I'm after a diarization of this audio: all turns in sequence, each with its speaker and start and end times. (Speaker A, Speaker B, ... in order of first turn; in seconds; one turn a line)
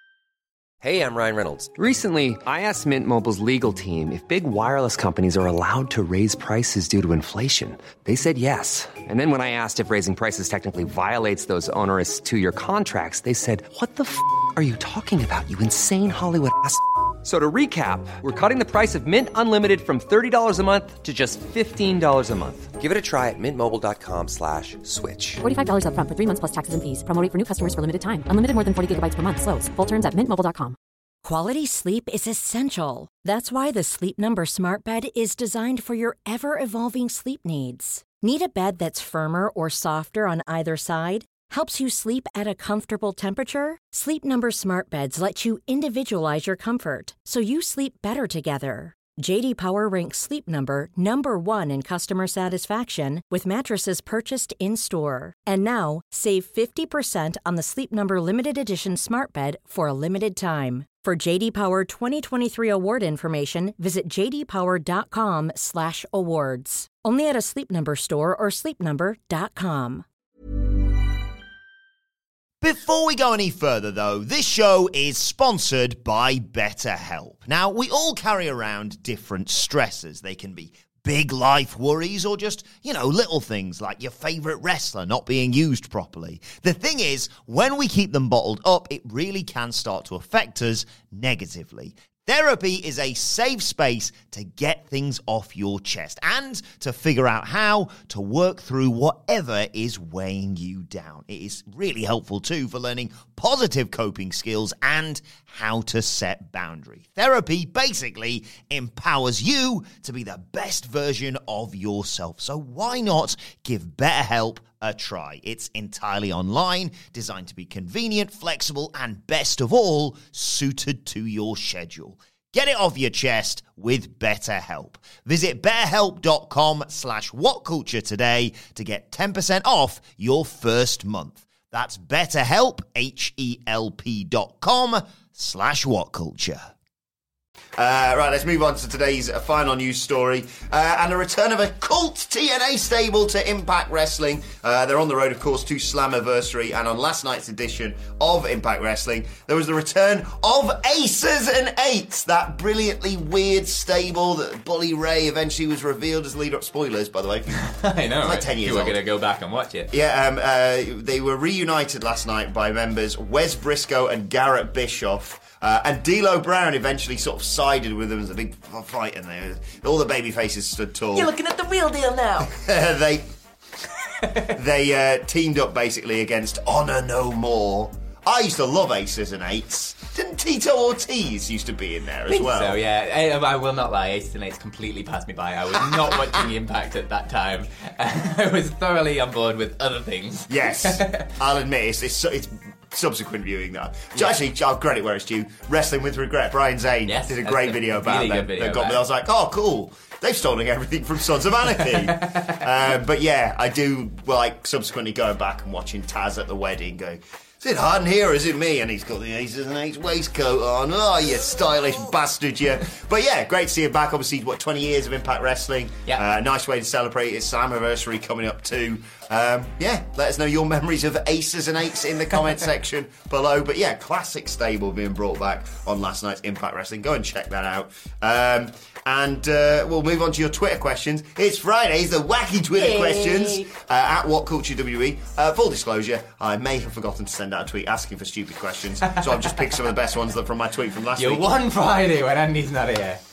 Speaker A: 0.8-25.4
Speaker B: 25.4-30.8
Speaker C: 31.2-70.0
Speaker D: 72.6-136.7
Speaker D: 137.8-157.7
Speaker E: 157.5-159.9
Speaker D: 158.2-159.0
Speaker D: 159.9-171.3
Speaker E: 171.1-172.5
Speaker D: 172.4-173.3
Speaker E: 174.2-174.5
Speaker D: 174.3-182.8
Speaker E: 182.3-191.3
Speaker D: 185.8-186.4
Speaker D: 190.5-241.5
Speaker E: 197.1-199.0
Speaker E: 201.8-202.7
Speaker E: 232.8-233.7
Speaker E: 241.2-243.2